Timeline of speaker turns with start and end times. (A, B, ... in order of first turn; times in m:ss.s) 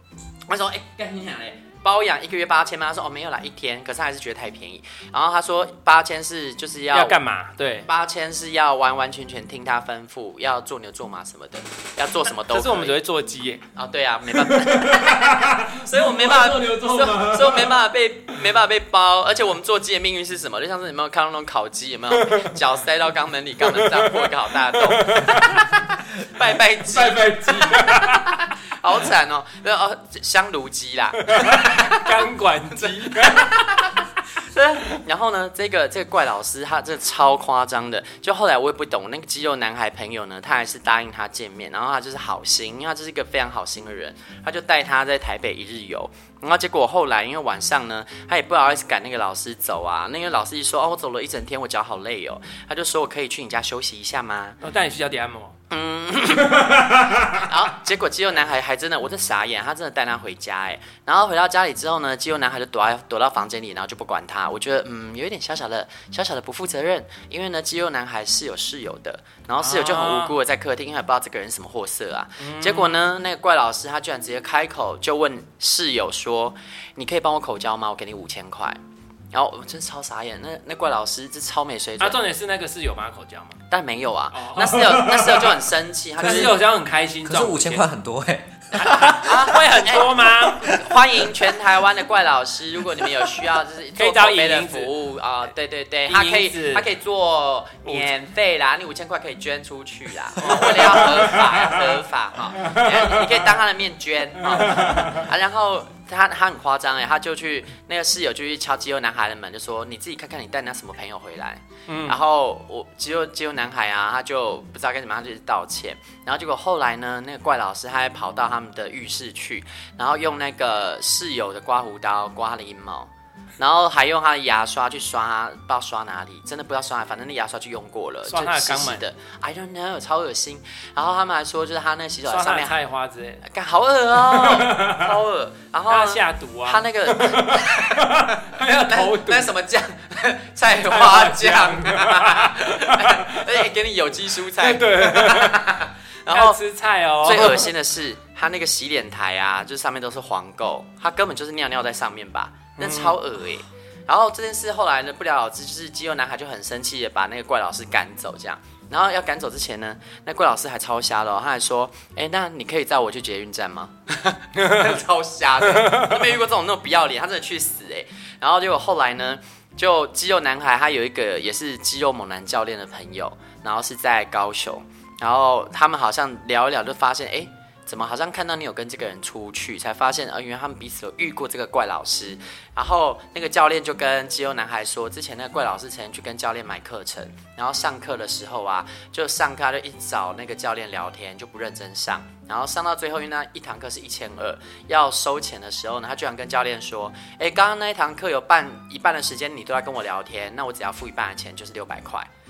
0:00.5-0:07.2 A
0:06.9-0:07.9 B
0:07.8-0:13.0 A
0:12.5-0:13.6 B
0:13.7-0:54.6 A
0:14.3-0:17.8 B
0:23.7-0:24.3 B
0:25.0-0:25.7 B
0:26.9-0:28.4 B
0:31.3-0:33.8 B
0:54.6-0:55.6 B
0:55.7-1:18.8 A
0:56.5-0:57.4 B
1:09.6-1:10.3 B
1:12.4-1:13.0 B
1:19.3-1:22.2 A
1:22.0-1:23.6 B
1:23.7-1:26.6 A
1:24.3-1:25.7 B
1:26.2-1:26.6 C
1:26.2-1:27.8 B
1:27.2-1:29.3 C
1:28.8-1:30.8 B
1:29.0-2:12.7 A
1:34.0-1:34.9 B
1:36.1-1:36.8 B
1:40.5-1:42.0 B
1:42.6-1:43.4 B
1:44.5-1:45.2 B
1:51.9-1:52.2 B
2:08.3-2:09.0 B
2:12.3-2:13.4 B
2:13.4-2:26.6 A
2:14.2-2:15.1 B
2:15.9-2:19.5 B
2:20.8-2:23.6 B
2:24.6-2:25.7 B
2:26.3-2:27.7 B
2:27.2-3:22.3 A
2:32.8-2:33.2 B
2:44.6-2:45.0 B
2:45.7-2:46.2 B